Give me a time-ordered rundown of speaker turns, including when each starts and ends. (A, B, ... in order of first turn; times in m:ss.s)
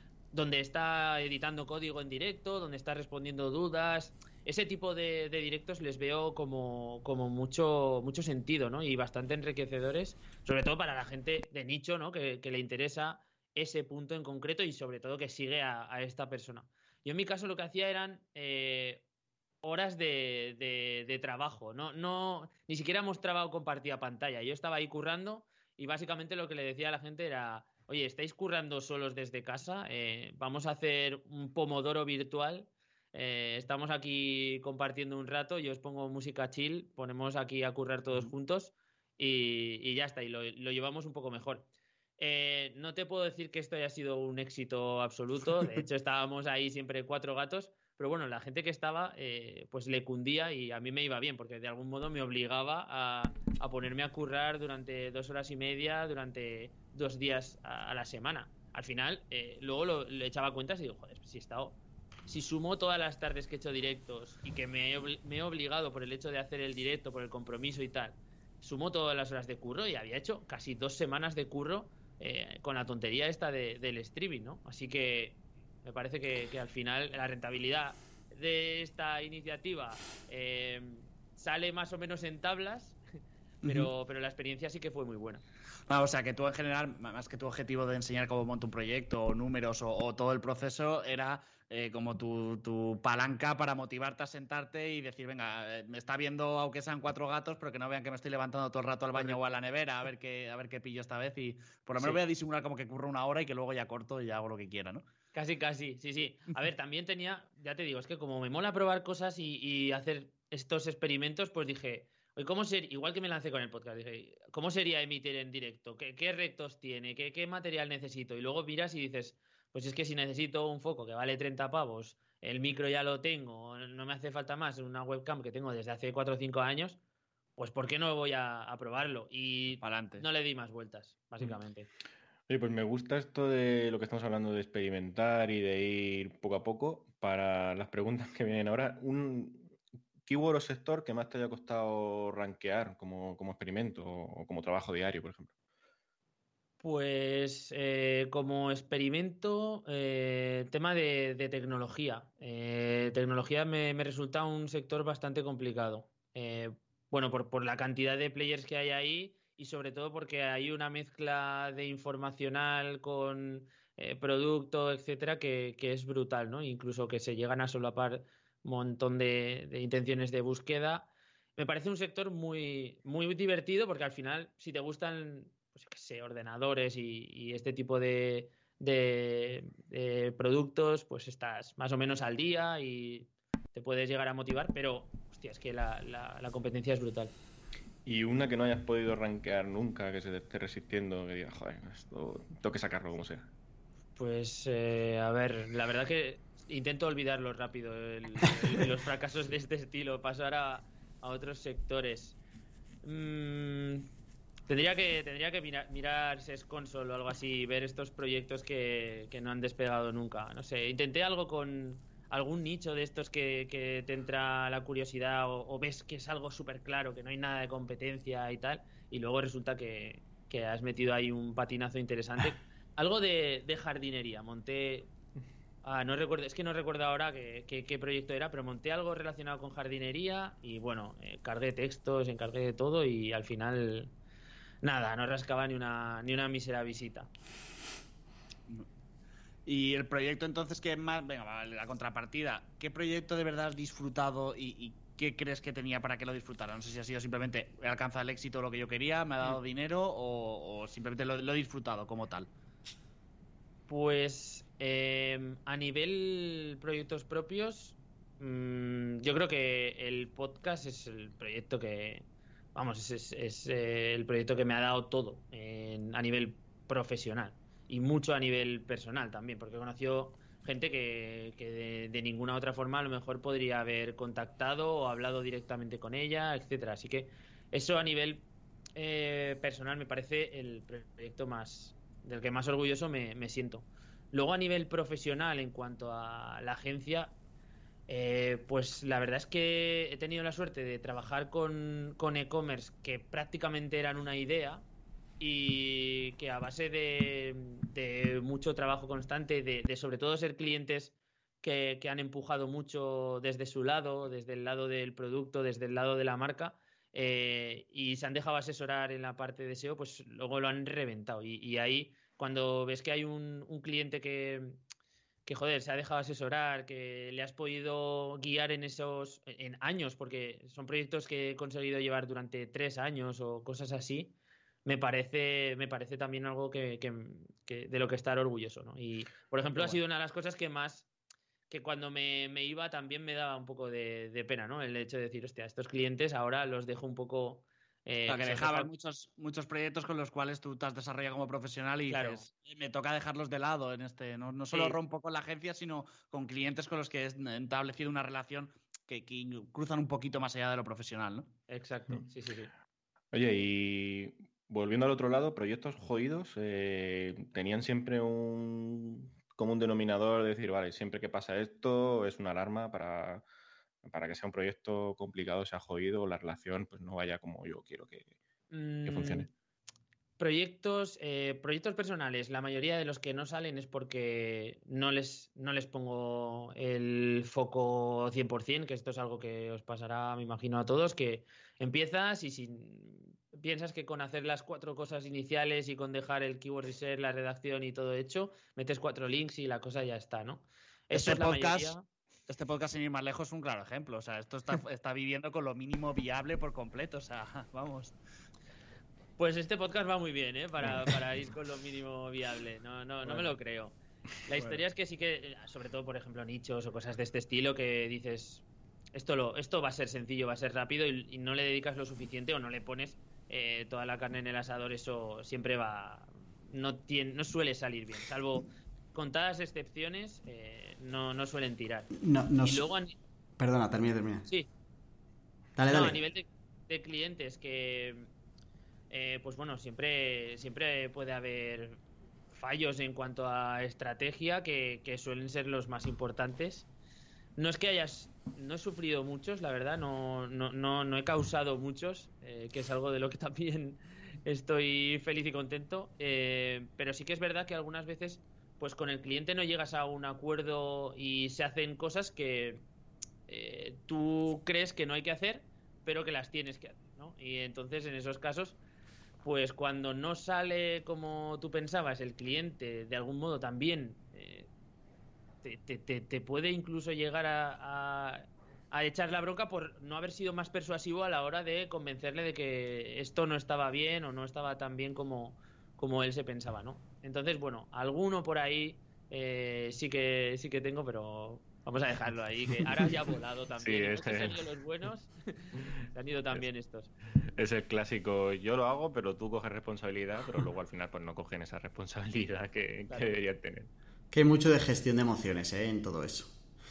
0:00.3-0:19.0 A
0:19.6-0:41.7 A
0:42.2-1:23.0 A
1:23.6-1:23.9 B
1:23.6-1:25.4 A
1:25.9-1:45.0 B
1:39.2-1:39.4 A
1:42.0-1:42.2 A
1:45.3-2:07.0 A
2:07.6-2:11.9 A
2:09.8-2:10.2 B
2:12.5-2:19.7 C
2:20.3-2:25.5 C
2:26.8-3:07.3 A
3:08.0-3:13.5 C
3:14.2-3:22.4 A
3:23.0-3:24.1 A
3:24.7-3:45.1 A
3:45.8-3:54.1 A
3:54.8-3:57.3 A
3:59.7-4:12.5 B
4:13.9-4:47.3 A
4:48.1-4:54.8 A
4:55.4-5:14.8 A
5:15.5-5:31.1 A
5:29.7-5:30.0 B
5:31.7-5:38.9 A
5:38.3-5:51.5 B
5:42.1-5:42.5 A
5:44.7-5:45.0 A
5:51.7-5:52.7 A
5:53.3-6:03.4 C
6:04.0-6:08.3 C
6:08.7-6:09.5 A
6:09.0-6:09.5 C
6:10.4-6:32.0 A
6:31.1-6:32.0 B
6:32.5-6:38.2 B
6:39.4-7:03.2 A
6:43.2-6:43.5 B
6:44.6-6:44.8 B
7:02.2-7:02.8 D
7:03.6-7:04.5 D
7:05.8-7:06.2 D
7:05.9-7:08.3 A
7:09.1-7:12.0 A
7:12.5-7:16.9 A
7:17.6-7:32.8 A
7:33.5-7:38.8 A
7:39.4-7:44.7 A
7:45.6-8:07.1 A
8:03.8-8:04.6 C
8:07.5-8:13.9 C
8:13.1-8:13.4 A
8:14.3-8:16.5 D